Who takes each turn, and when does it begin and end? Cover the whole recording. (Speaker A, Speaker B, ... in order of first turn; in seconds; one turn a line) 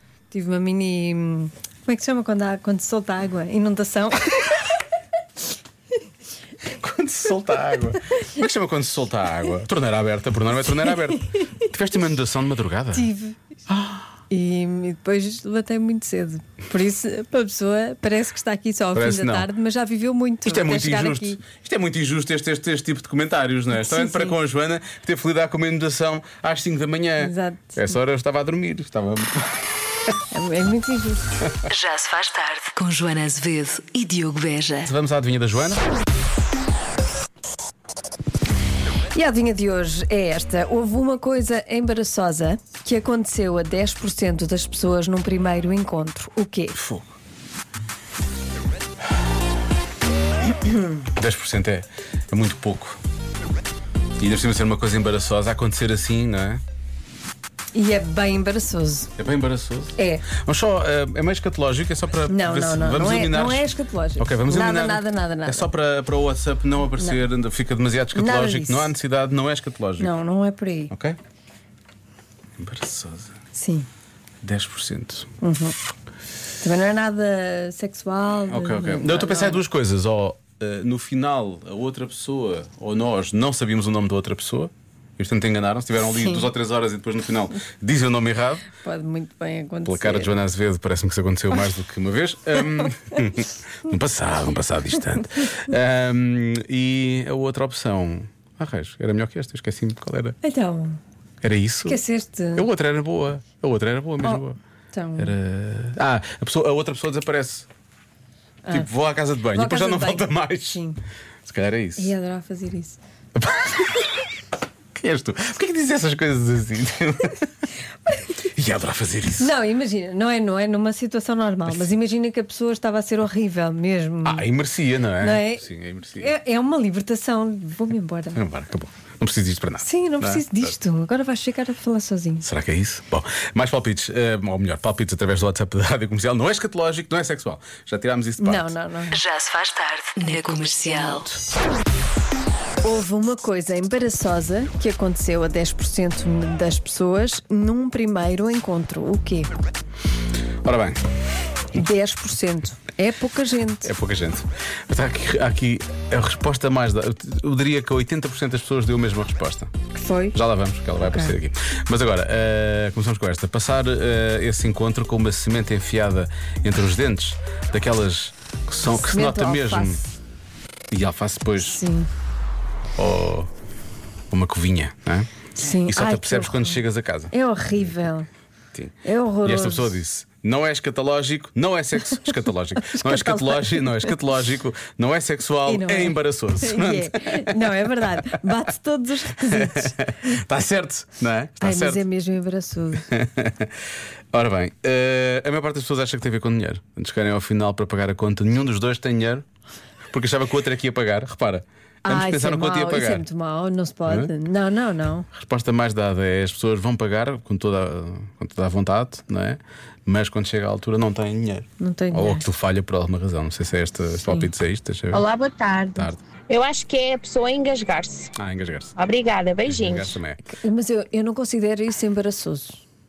Speaker A: 0.3-4.7
Speaker B: 6.7-13.1
Speaker A: 12.9-13.4
Speaker B: 13.7-14.1
Speaker A: 14.3-21.4
Speaker B: 18.9-19.5
Speaker B: 20.4-29.7
Speaker A: 23.7-24.4
Speaker A: 27.2-27.9
Speaker A: 30.3-31.3
Speaker C: 31.7-34.9
Speaker B: 34.8-35.8
Speaker A: 39.1-46.8
Speaker B: 46.7-47.1
Speaker B: 51.1-53.0
Speaker B: 54.2-56.6
Speaker A: 57.7-59.1
Speaker B: 59.2-63.7
Speaker A: 60.0-60.3
Speaker A: 62.3-65.7
Speaker B: 64.2-70.1
Speaker A: 67.0-67.2
Speaker A: 68.1-68.9
Speaker A: 70.0-70.9
Speaker B: 70.9-71.2
Speaker B: 72.6-73.3
Speaker A: 73.5-73.9
Speaker B: 74.4-75.3
Speaker A: 75.4-75.8
Speaker A: 76.6-79.6
Speaker B: 78.5-88.7
Speaker A: 86.0-86.5
Speaker A: 88.8-90.4
Speaker B: 89.8-100.3
Speaker A: 100.4-101.0
Speaker B: 101.4-102.0
Speaker A: 101.8-102.7
Speaker B: 102.5-104.6
Speaker A: 104.2-105.3
Speaker B: 105.2-107.7
Speaker B: 108.7-110.8
Speaker A: 109.5-111.0
Speaker B: 111.5-112.1
Speaker A: 112.0-113.0
Speaker B: 113.3-114.2
Speaker B: 114.9-117.5
Speaker A: 118.1-118.3
Speaker B: 118.5-119.5
Speaker A: 119.4-124.5
Speaker B: 124.2-126.3
Speaker A: 125.2-128.4
Speaker B: 128.3-130.7
Speaker A: 129.8-132.4
Speaker B: 132.4-138.7
Speaker A: 138.4-139.2
Speaker C: 139.1-141.3
Speaker A: 142.8-149.5
Speaker B: 150.6-151.0
Speaker A: 151.7-153.9
Speaker B: 153.8-159.7
Speaker A: 159.9-160.4
Speaker B: 160.3-170.0
Speaker A: 161.0-161.3
Speaker A: 168.8-170.0
Speaker B: 170.9-171.8
Speaker A: 171.6-172.1
Speaker B: 172.9-173.5
Speaker B: 174.3-175.3
Speaker A: 175.6-178.3
Speaker B: 175.8-177.3
Speaker B: 178.7-187.7
Speaker A: 179.0-179.9
Speaker A: 182.8-184.1
Speaker A: 185.6-189.9
Speaker B: 189.4-192.0
Speaker A: 191.6-193.1
Speaker B: 193.1-193.7
Speaker B: 194.3-199.4
Speaker B: 200.1-203.2
Speaker A: 202.0-205.3
Speaker B: 204.1-204.3
Speaker B: 205.3-215.2
Speaker A: 211.8-212.4
Speaker D: 215.1-218.3
Speaker B: 215.9-216.2
Speaker B: 218.4-218.9
Speaker D: 219.0-220.2
Speaker B: 219.6-220.4
Speaker A: 220.4-222.8